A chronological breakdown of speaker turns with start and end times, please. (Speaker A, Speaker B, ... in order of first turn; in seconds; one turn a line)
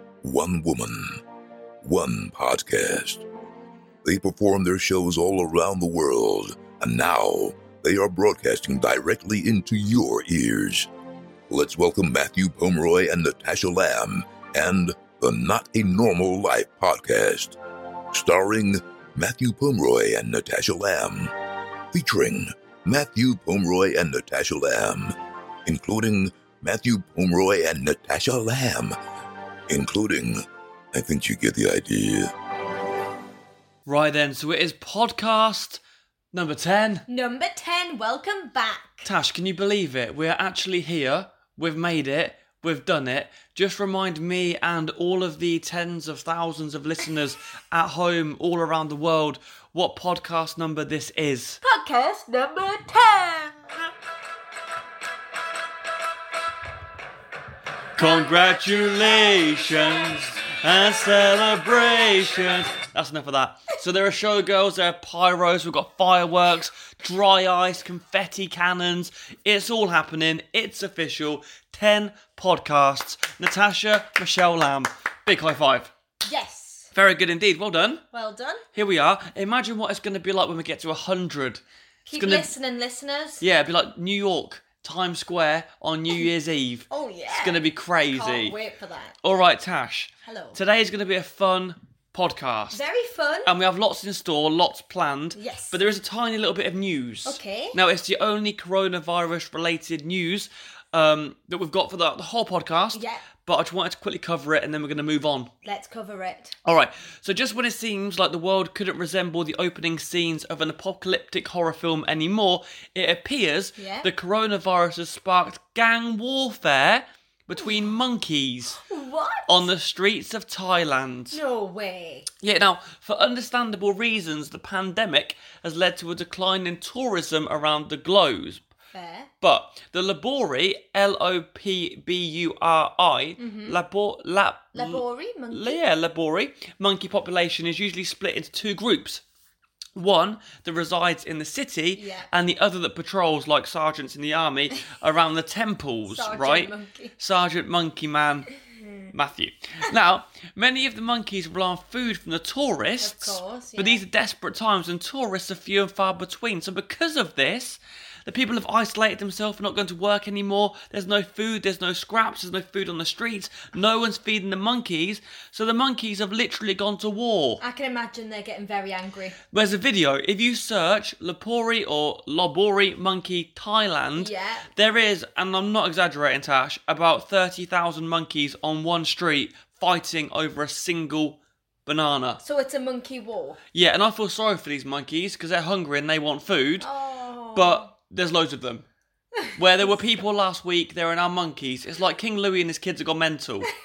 Speaker A: 0.2-1.2
Speaker A: 1.8-3.2
Speaker A: 4.0-10.9
Speaker A: 11.5-17.6
Speaker A: 18.1-21.3
Speaker A: 21.9-25.1
Speaker A: 25.6-28.9
Speaker A: 29.7-32.3
Speaker B: 33.9-35.8
Speaker B: 36.3-37.0
Speaker C: 37.1-39.1
Speaker B: 39.0-51.6
Speaker C: 51.6-53.9
Speaker B: 58.0-75.9
Speaker C: 58.0-60.2
Speaker C: 76.2-76.9
Speaker B: 76.9-78.0
Speaker C: 78.1-78.6
Speaker B: 78.7-81.6
Speaker C: 82.1-83.4
Speaker B: 82.1-82.5
Speaker B: 83.4-88.5
Speaker C: 86.9-89.3
Speaker B: 89.2-92.8
Speaker C: 90.2-90.6
Speaker C: 92.7-93.5
Speaker B: 93.5-105.5
Speaker C: 95.3-95.8
Speaker C: 97.2-97.8
Speaker C: 102.9-103.2
Speaker C: 105.6-106.5
Speaker B: 106.6-118.8
Speaker C: 113.8-114.1
Speaker C: 118.8-119.7
Speaker B: 119.5-121.4
Speaker C: 121.3-122.3
Speaker B: 122.4-128.6
Speaker C: 128.9-129.3
Speaker B: 129.4-139.2
Speaker C: 133.4-133.8
Speaker C: 134.7-135.8
Speaker B: 139.9-148.5
Speaker C: 141.9-142.3
Speaker C: 146.1-147.1
Speaker C: 148.6-149.1
Speaker B: 149.1-167.6
Speaker C: 153.0-154.0
Speaker C: 167.6-169.4
Speaker B: 169.5-182.4
Speaker C: 174.2-174.7
Speaker C: 182.4-183.6
Speaker B: 183.7-186.9
Speaker C: 186.8-187.9
Speaker B: 187.5-188.8
Speaker C: 189.4-190.2
Speaker B: 189.6-193.7